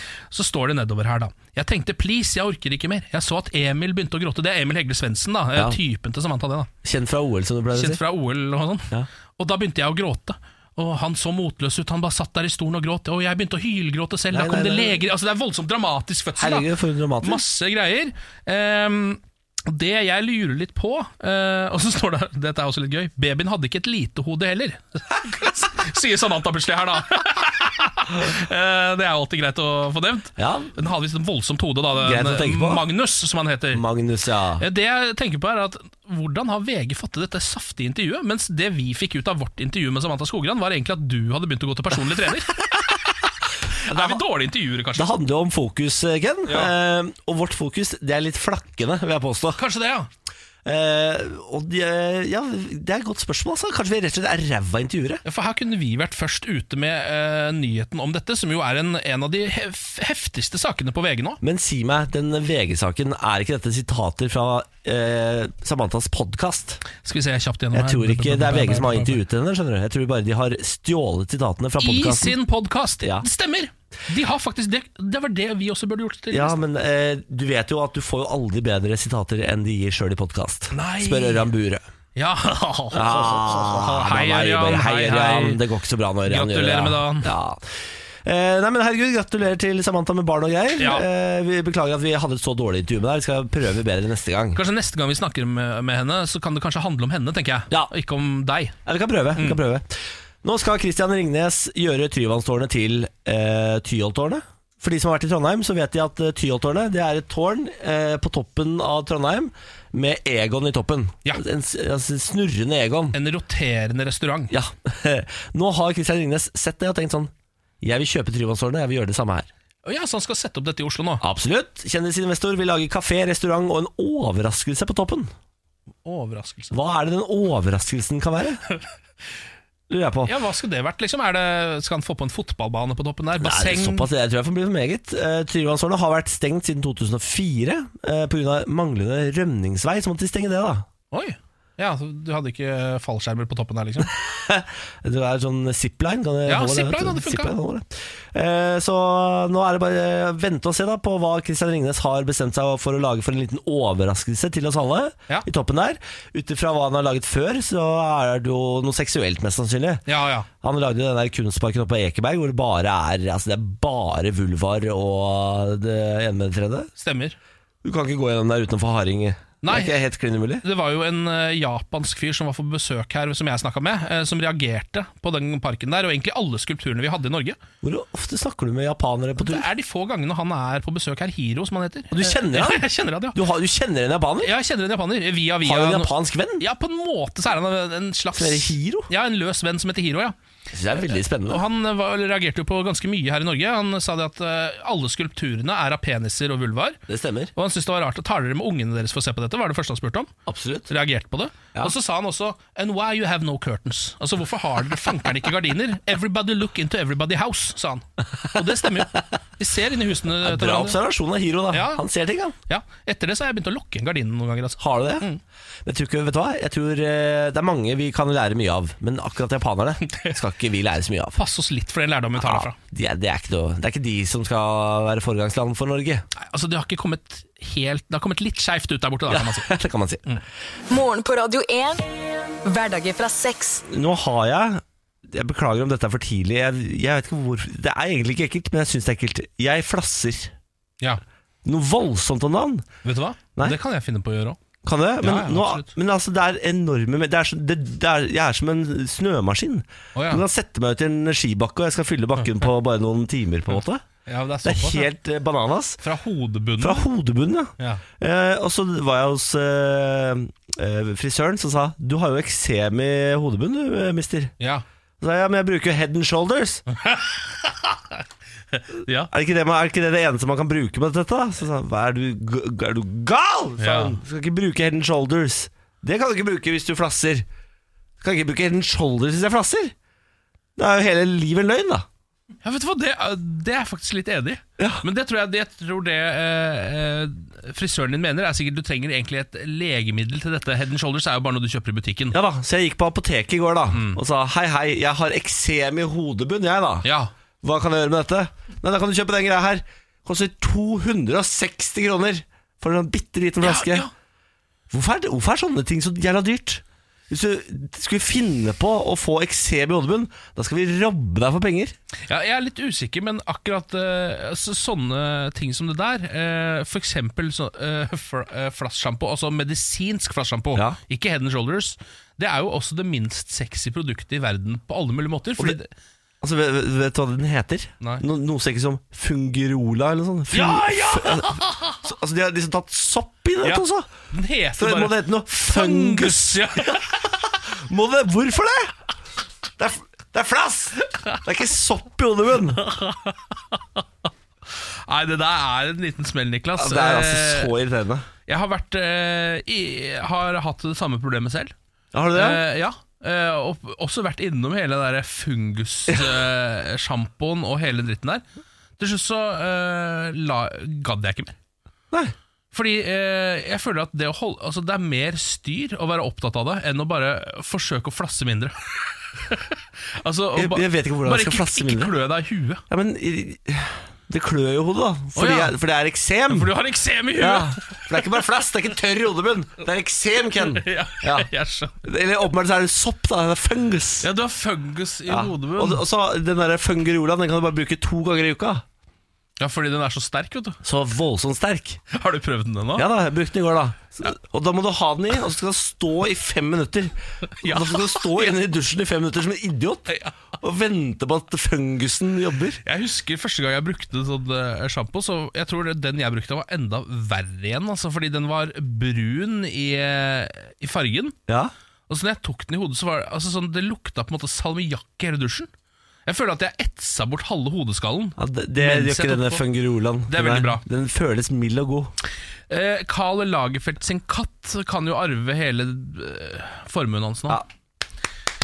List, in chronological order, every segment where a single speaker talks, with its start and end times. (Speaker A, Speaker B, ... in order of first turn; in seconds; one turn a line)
Speaker A: 0.3-6.7
Speaker B: 6.8-8.0
Speaker A: 7.7-16.7
Speaker B: 14.3-15.0
Speaker B: 16.4-17.4
Speaker A: 17.2-33.8
Speaker B: 30.4-30.8
Speaker B: 32.0-32.8
Speaker B: 33.7-34.6
Speaker A: 34.6-45.2
Speaker B: 43.8-44.2
Speaker B: 44.9-49.6
Speaker A: 46.5-46.7
Speaker A: 49.6-50.1
Speaker B: 50.6-55.2
Speaker A: 55.2-61.4
Speaker B: 61.4-66.8
Speaker A: 67.0-69.2
Speaker B: 67.7-72.3
Speaker A: 71.8-76.6
Speaker B: 76.3-81.8
Speaker A: 80.7-81.4
Speaker A: 82.1-85.6
Speaker B: 82.9-87.6
Speaker A: 86.3-87.3
Speaker B: 88.2-94.6
Speaker A: 90.8-91.1
Speaker A: 94.5-98.8
Speaker B: 98.8-113.2
Speaker A: 99.3-99.6
Speaker A: 113.1-114.5
Speaker B: 114.5-119.5
Speaker A: 119.8-121.2
Speaker B: 121.2-125.3
Speaker A: 126.0-126.7
Speaker B: 126.7-128.6
Speaker B: 129.9-130.3
Speaker A: 130.2-134.1
Speaker B: 133.4-140.8
Speaker A: 141.1-144.1
Speaker B: 144.1-160.0
Speaker A: 146.4-147.6
Speaker A: 160.1-160.5
Speaker B: 160.6-166.9
Speaker A: 167.0-167.4
Speaker B: 167.8-170.6
Speaker A: 169.6-170.0
Speaker A: 170.6-177.6
Speaker B: 177.8-179.7
Speaker A: 179.4-183.4
Speaker B: 182.1-184.5
Speaker A: 184.4-190.3
Speaker B: 185.6-186.6
Speaker B: 188.3-189.1
Speaker B: 190.7-191.6
Speaker A: 191.5-197.0
Speaker B: 197.1-197.5
Speaker A: 197.6-200.3
Speaker B: 200.5-200.9
Speaker A: 200.9-211.0
Speaker B: 208.4-209.2
Speaker B: 210.4-212.6
Speaker A: 211.7-212.0
Speaker A: 212.7-215.4
Speaker B: 214.8-215.3
Speaker B: 215.8-221.4
Speaker A: 220.1-220.4
Speaker A: 221.3-222.8
Speaker B: 222.4-226.2
Speaker A: 226.3-229.7
Speaker B: 229.3-230.2
Speaker C: 230.9-232.1
Speaker C: 232.6-233.8
Speaker B: 233.8-240.5
Speaker B: 241.6-242.8
Speaker A: 243.0-244.6
Speaker B: 244.8-254.0
Speaker A: 245.2-245.9
Speaker A: 250.1-250.4
Speaker A: 254.2-255.1
Speaker B: 254.6-256.0
Speaker A: 256.0-257.0
Speaker B: 256.8-264.5
Speaker A: 264.6-264.8
Speaker B: 265.2-266.8
Speaker A: 266.9-269.3
Speaker B: 269.3-277.4
Speaker A: 273.8-274.2
Speaker B: 278.2-279.9
Speaker B: 280.8-282.0
Speaker A: 282.6-292.4
Speaker B: 284.8-285.0
Speaker B: 292.3-297.1
Speaker A: 293.9-294.2
Speaker A: 297.0-297.3
Speaker B: 297.6-304.1
Speaker A: 303.6-304.1
Speaker B: 304.9-311.9
Speaker A: 312.3-325.9
Speaker B: 326.4-334.1
Speaker A: 330.5-332.0
Speaker A: 333.6-337.5
Speaker B: 334.8-338.9
Speaker B: 339.8-342.8
Speaker A: 342.7-344.0
Speaker A: 344.8-347.7
Speaker B: 346.8-348.3
Speaker A: 348.4-351.7
Speaker B: 352.1-352.6
Speaker A: 352.3-358.4
Speaker A: 359.0-361.6
Speaker A: 362.7-372.8
Speaker B: 370.5-372.1
Speaker B: 372.9-376.7
Speaker A: 375.4-375.7
Speaker A: 376.5-378.2
Speaker B: 377.4-381.5
Speaker A: 380.5-382.0
Speaker B: 382.0-384.3
Speaker A: 384.2-386.0
Speaker B: 385.3-388.8
Speaker A: 389.6-390.8
Speaker B: 390.8-392.0
Speaker A: 392.1-393.1
Speaker B: 392.9-402.8
Speaker A: 397.6-398.5
Speaker A: 402.8-411.4
Speaker A: 412.1-415.7
Speaker A: 416.2-419.6
Speaker B: 418.4-422.1
Speaker A: 420.3-420.8
Speaker A: 422.7-427.6